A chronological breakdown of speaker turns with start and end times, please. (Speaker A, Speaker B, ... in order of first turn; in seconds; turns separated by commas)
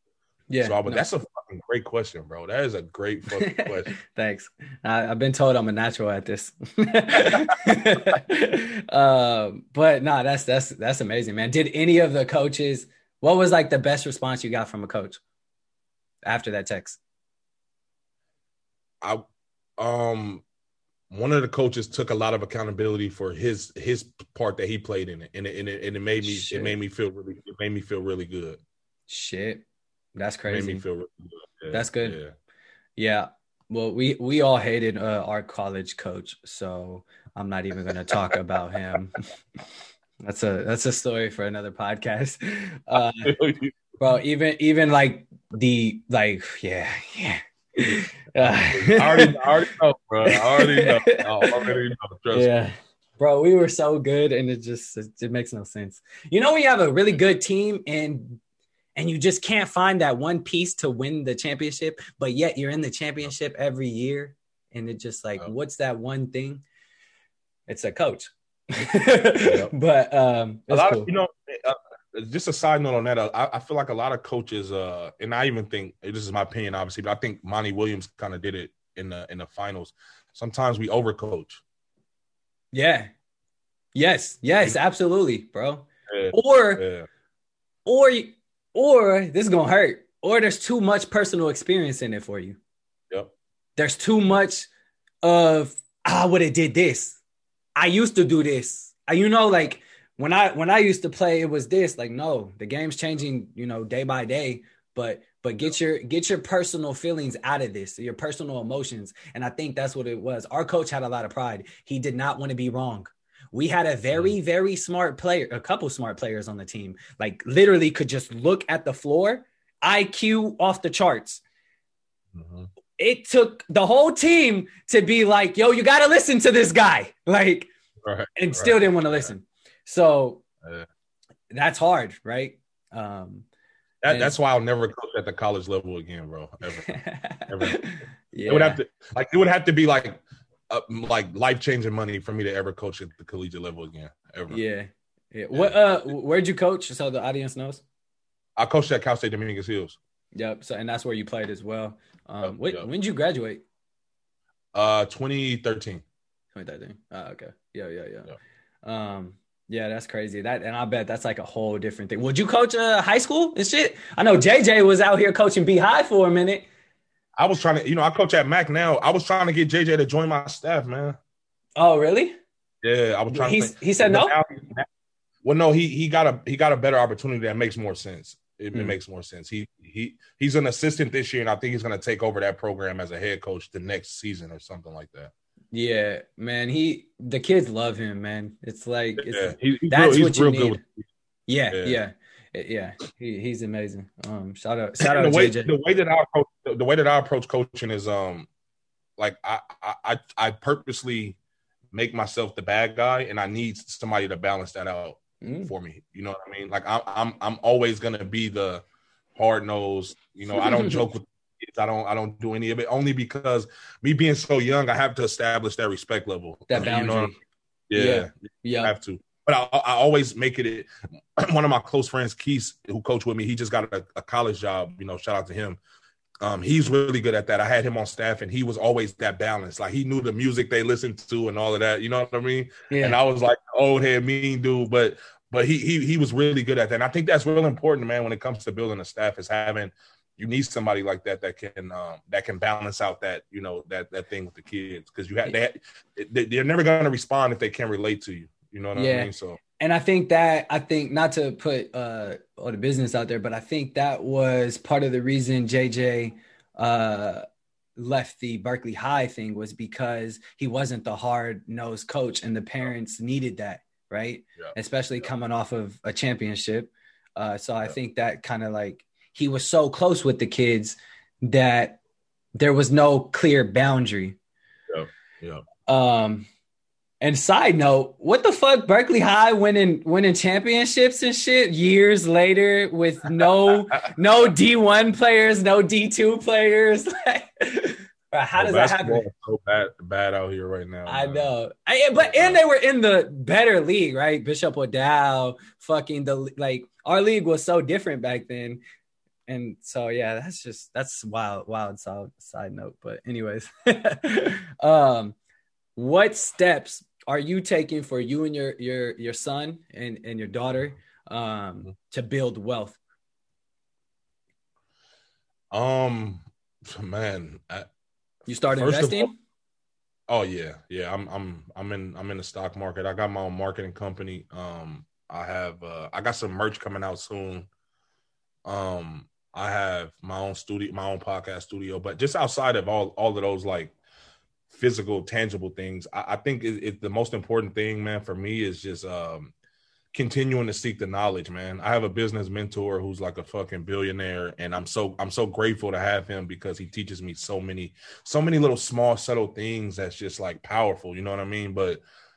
Speaker A: 0.5-1.0, Speaker B: 0.6-3.9, Speaker A: 3.4-15.2, Speaker B: 7.3-7.8, Speaker A: 16.2-17.0, Speaker B: 19.8-20.4, Speaker B: 21.1-28.6, Speaker A: 26.2-26.7, Speaker A: 29.1-29.6, Speaker A: 30.1-30.8, Speaker B: 30.5-32.3, Speaker A: 31.7-32.2, Speaker A: 33.0-39.2, Speaker A: 40.2-43.3, Speaker B: 42.9-43.8, Speaker A: 44.0-49.5, Speaker B: 48.4-52.5, Speaker A: 50.2-51.7, Speaker A: 52.3-58.4, Speaker A: 59.0-66.6, Speaker A: 67.7-71.1, Speaker B: 69.4-69.7, Speaker B: 70.7-81.6, Speaker A: 82.7-83.1, Speaker A: 83.9-86.8, Speaker B: 86.1-87.1, Speaker A: 87.8-92.6, Speaker A: 93.8-94.7, Speaker A: 95.2-97.2, Speaker A: 97.8-121.4, Speaker B: 122.3-122.7, Speaker A: 123.0-127.7, Speaker B: 128.0-129.3, Speaker A: 128.3-130.4, Speaker B: 130.6-130.9, Speaker A: 131.5-133.4, Speaker B: 134.0-137.8, Speaker A: 134.1-134.3, Speaker A: 136.8-138.8, Speaker B: 138.5-144.6, Speaker A: 144.5-147.8, Speaker B: 145.5-146.0, Speaker B: 148.6-150.0, Speaker A: 150.3-153.6, Speaker B: 152.4-152.9, Speaker B: 154.7-156.0, Speaker A: 156.5-158.3, Speaker A: 158.8-166.7, Speaker B: 167.4-171.2, Speaker A: 171.8-172.3, Speaker B: 172.8-174.9, Speaker A: 173.3-174.3, Speaker B: 175.4-185.3, Speaker A: 185.7-190.8, Speaker B: 189.2-191.1, Speaker A: 191.5-195.7, Speaker B: 191.7-192.0, Speaker B: 195.0-198.5, Speaker B: 199.2-201.4, Speaker B: 201.9-208.8, Speaker A: 205.4-205.7, Speaker B: 209.3-217.3, Speaker A: 210.5-211.0, Speaker A: 216.7-217.4, Speaker B: 217.9-225.8, Speaker A: 217.9-218.9, Speaker B: 226.4-249.6, Speaker A: 232.9-233.2, Speaker A: 248.9-257.4, Speaker A: 258.0-272.0, Speaker A: 272.6-274.4, Speaker B: 274.9-275.6, Speaker A: 275.9-276.5, Speaker A: 277.2-289.2, Speaker B: 283.4-284.0, Speaker B: 288.6-291.5, Speaker A: 291.1-298.8, Speaker B: 292.2-292.6, Speaker A: 299.5-305.4, Speaker A: 305.9-313.0, Speaker B: 315.7-317.9, Speaker A: 318.5-319.3, Speaker B: 318.7-319.3, Speaker B: 320.3-327.7, Speaker B: 328.6-333.9, Speaker B: 334.7-339.5, Speaker B: 340.1-352.0